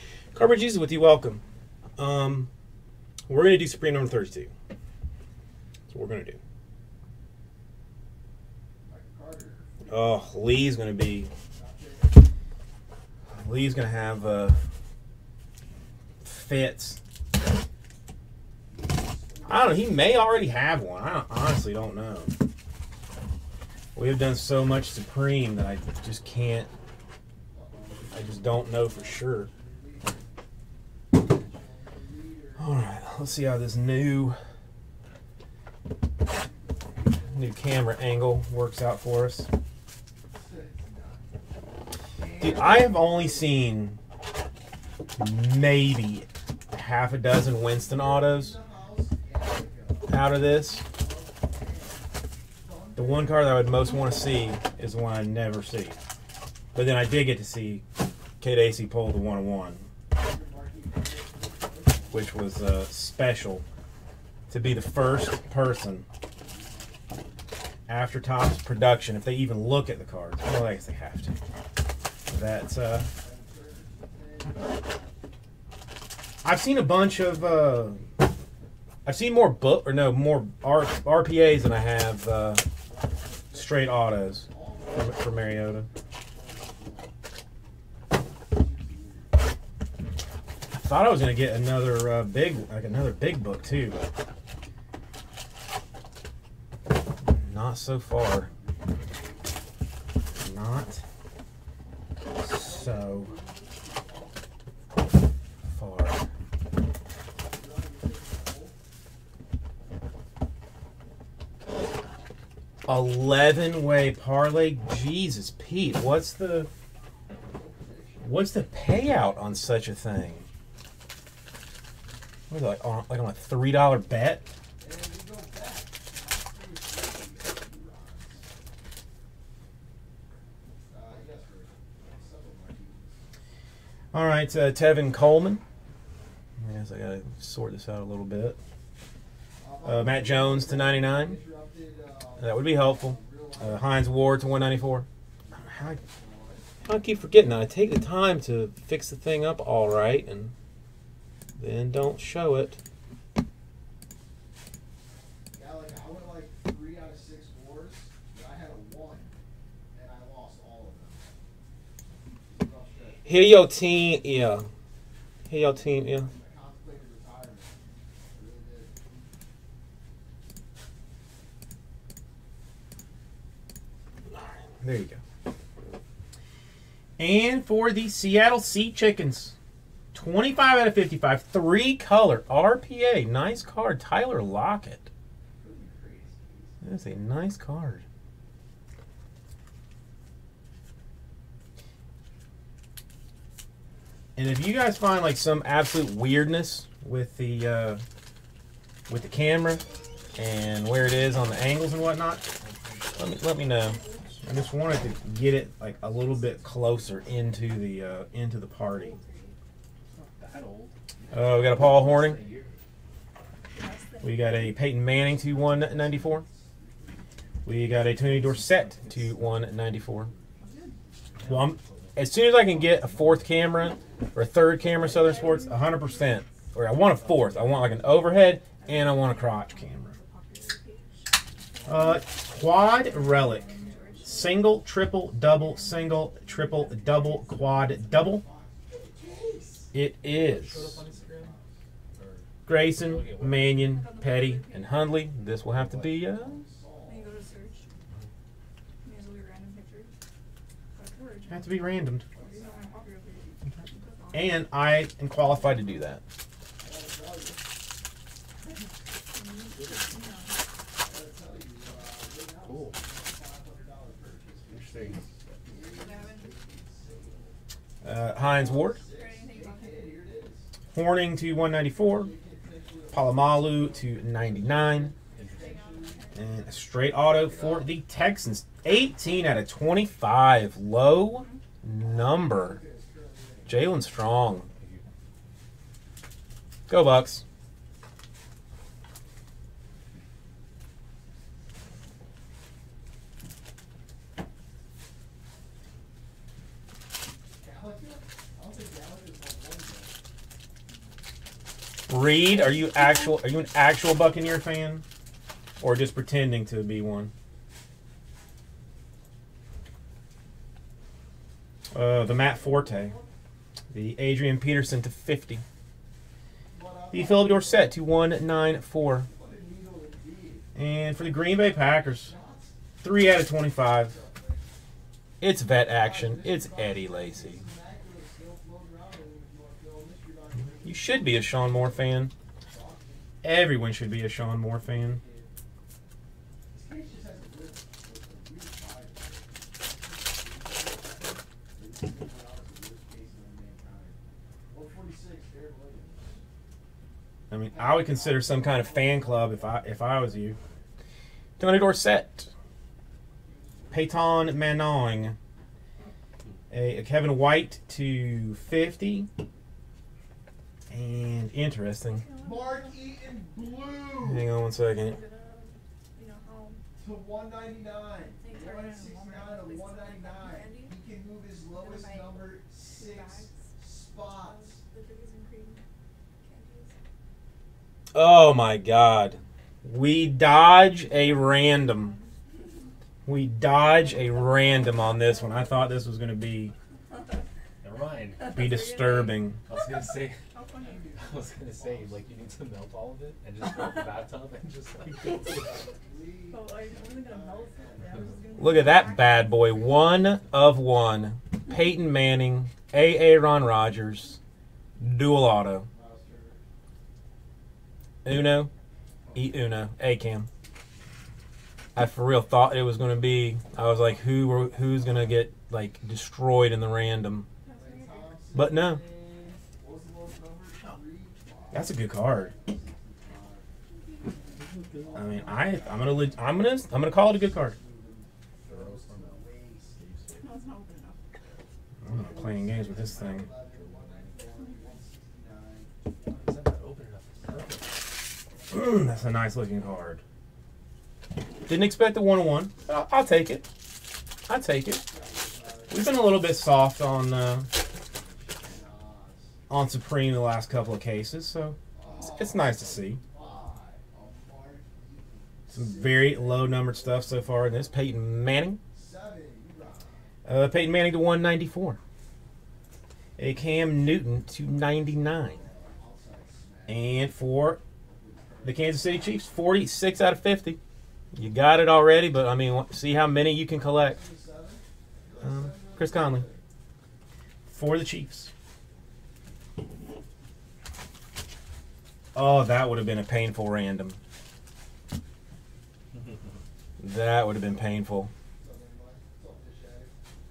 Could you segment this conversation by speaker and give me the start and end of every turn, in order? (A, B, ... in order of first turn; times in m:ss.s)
0:00.3-0:01.4 A
0:02.0-0:02.5 A
0:03.3-0:04.5 A
0:05.9-0:06.4 A
0:08.8-0:10.0 B
0:09.8-0:11.3 A
0:11.5-0:12.2 B
0:13.3-0:14.6 A
0:16.2-0:17.0 A
0:18.7-0:20.5 B
0:19.5-0:22.4 A
0:23.9-0:26.7 A
0:27.5-0:30.3 B
0:28.1-0:29.5 A
0:31.1-0:32.7 B
0:32.6-0:34.4 A
0:36.3-0:37.4 B
0:37.2-0:39.5 A
0:40.3-0:41.5 B
0:42.1-0:43.5 B
0:42.4-0:44.0 A
0:45.2-0:48.6 A
0:47.7-0:53.8 B
0:50.1-0:50.8 A
0:53.0-0:56.0 A
0:56.7-0:57.8 A
0:58.4-0:59.8 A
1:00.1-1:02.5 B
1:02.1-1:03.6 A
1:04.5-1:06.0 A
1:06.3-1:07.4 B
1:07.9-1:11.4 A
1:12.3-1:13.1 A
1:13.1-1:14.9 B
1:16.4-1:18.0 A
1:19.0-1:22.6 A
1:22.8-1:27.2 B
1:23.5-1:25.8 A
1:28.4-1:29.4 B
1:30.7-1:34.1 A
1:37.3-1:38.5 A
1:38.5-1:39.5 B
1:40.4-1:41.0 A
1:42.3-1:44.4 B
1:42.3-1:43.3 A
1:45.6-1:46.3 A
1:47.3-1:48.8 B
1:52.8-1:56.7 A
1:57.3-1:58.4 B
1:58.2-2:00.5 A
2:02.5-2:04.4 A
2:04.8-2:08.5 B
2:10.9-2:13.3 B
2:14.1-2:15.6 A
2:16.6-2:18.6 A
2:19.6-2:24.0 B
2:19.8-2:21.4 A
2:22.4-2:26.0 A
2:25.4-2:26.8 B
2:26.8-2:30.5 A
2:31.6-2:32.8 A
2:35.5-2:39.3 B
2:39.9-2:41.4 B
2:42.4-2:43.5 B
2:43.2-2:44.7 A
2:45.5-2:46.3 A
2:45.7-2:49.2 B
2:54.3-2:55.2 A
2:57.2-2:59.5 A
3:00.1-3:05.1 A
3:05.5-3:06.8 B
3:06.8-3:08.0 A
3:14.4-3:18.0 A
3:19.1-3:19.8 A
3:20.4-3:22.4 A
3:22.5-3:23.4 C
3:23.2-3:29.2 A
3:23.6-3:24.8 D
3:26.2-3:27.5 B
3:28.9-3:29.6 D
3:30.1-3:32.8 C
3:31.2-3:32.5 B
3:31.3-3:32.4 A
3:33.7-3:34.6 D
3:34.2-3:36.4 A
3:35.2-3:41.5 B
3:37.6-3:40.3 A
3:38.2-3:39.3 C
3:40.6-3:41.0 D
3:41.4-3:43.5 C
3:41.4-3:50.2 A
3:45.0-3:46.5 D
3:47.2-3:48.1 C
3:48.8-3:58.2 D
3:51.9-3:58.4 A
3:53.6-3:54.6 B
3:57.8-3:59.9 B
3:59.9-4:01.0 A
4:00.4-4:01.6 C
4:00.9-4:01.8 B
4:02.1-4:03.9 C
4:02.6-4:06.6 A
4:03.8-4:05.2 D
4:05.4-4:07.7 B
4:07.0-4:08.0 D
4:09.0-4:10.1 D
4:10.9-4:14.7 D
4:11.5-4:12.2 A
4:12.3-4:13.0 B
4:14.3-4:16.2 A
4:15.4-4:16.0 D
4:16.8-4:17.7 B
4:19.3-4:20.6 D
4:19.7-4:20.2 C
4:20.9-4:27.6 B
4:22.6-4:23.0 C
4:24.7-4:25.2 C
4:25.8-4:26.6 D
4:28.0-4:29.0 A
4:28.2-4:30.7 B
4:29.0-4:30.1 D
4:30.9-4:32.3 A
4:31.8-4:36.4 B
4:33.1-4:35.1 A
4:35.3-4:35.8 C
4:35.4-4:36.8 D
4:36.3-4:42.8 A
4:37.3-4:38.0 B
4:41.3-4:41.6 D
4:42.0-4:43.9 B
4:43.6-4:44.7 A
4:44.8-4:45.0 C
4:46.9-4:47.4 A
4:57.6-5:00.1 B
5:02.1-5:05.0 A
5:05.8-5:07.3 A
5:11.9-5:13.2 A
5:12.2-5:13.3 B
5:13.9-5:15.6 A
5:16.7-5:18.0 B
5:17.1-5:19.3 A
5:19.2-5:24.7 B
5:20.7-5:22.3 A
5:23.0-5:24.2 A
5:25.4-5:27.6 A
5:25.8-5:33.4 B
5:30.8-5:32.3 A
5:33.4-5:35.2 A
5:34.8-5:35.5 B
5:36.7-5:46.4 B
5:47.5-5:50.6 A
5:47.6-5:50.9 B
5:51.6-5:52.5 A
5:53.4-5:55.0 B
5:53.9-5:55.4 A
5:56.7-5:59.3 A
6:00.9-6:02.3 A
6:02.1-6:03.0 D
6:02.3-6:04.5 B
6:04.2-6:05.2 A
6:04.9-6:06.8 D
6:07.0-6:14.8 B
6:08.4-6:10.9 D
6:11.7-6:15.8 D
6:16.4-6:17.0 D
6:18.1-6:22.2 A
6:20.9-6:22.3 D
6:23.2-6:26.7 A
6:23.8-6:26.0 D
6:27.8-6:28.6 C
6:28.4-6:29.5 D
6:28.5-6:29.6 A
6:29.6-6:30.4 C
6:30.5-6:31.1 D
6:30.7-6:32.6 B
6:31.1-6:35.9 C
6:35.8-6:38.8 B
6:36.5-6:40.2 D
6:38.6-6:44.4 A
6:45.0-6:45.9 A
6:45.9-6:46.6 B
6:48.2-6:48.7 A
6:49.2-6:49.8 B
6:49.3-6:50.5 A
6:51.9-6:57.5 A
6:53.8-6:55.4 B
6:57.6-6:58.4 D
6:57.7-7:03.8 B
6:58.5-6:59.0 A
7:01.7-7:02.6 A
7:03.8-7:05.1 D
7:04.6-7:05.3 C
7:05.0-7:10.0 B
7:05.1-7:07.7 A
7:08.6-7:10.5 C
7:10.4-7:11.6 D
7:12.0-7:13.4 A
7:12.1-7:16.8 B
7:12.4-7:14.5 C
7:16.3-7:18.0 C
7:17.3-7:19.9 B
7:18.7-7:20.2 A
7:21.6-7:23.6 A
7:24.5-7:25.0 A
7:25.0-7:26.2 B
7:25.9-7:27.7 A
7:27.7-7:29.6 B
7:29.7-7:33.2 A
7:31.9-7:38.0 B
7:35.7-7:38.8 A
7:38.9-7:40.3 B
7:40.4-7:42.0 A
7:43.4-7:45.6 A
7:45.2-7:47.2 B
7:46.9-7:47.8 A
7:48.0-7:49.3 B
7:48.6-7:50.8 A
7:51.3-7:54.2 A
7:53.9-7:56.6 B
7:55.4-7:56.4 A
7:57.7-7:58.5 A
8:02.3-8:04.2 A
8:07.0-8:08.3 A
8:08.6-8:10.2 B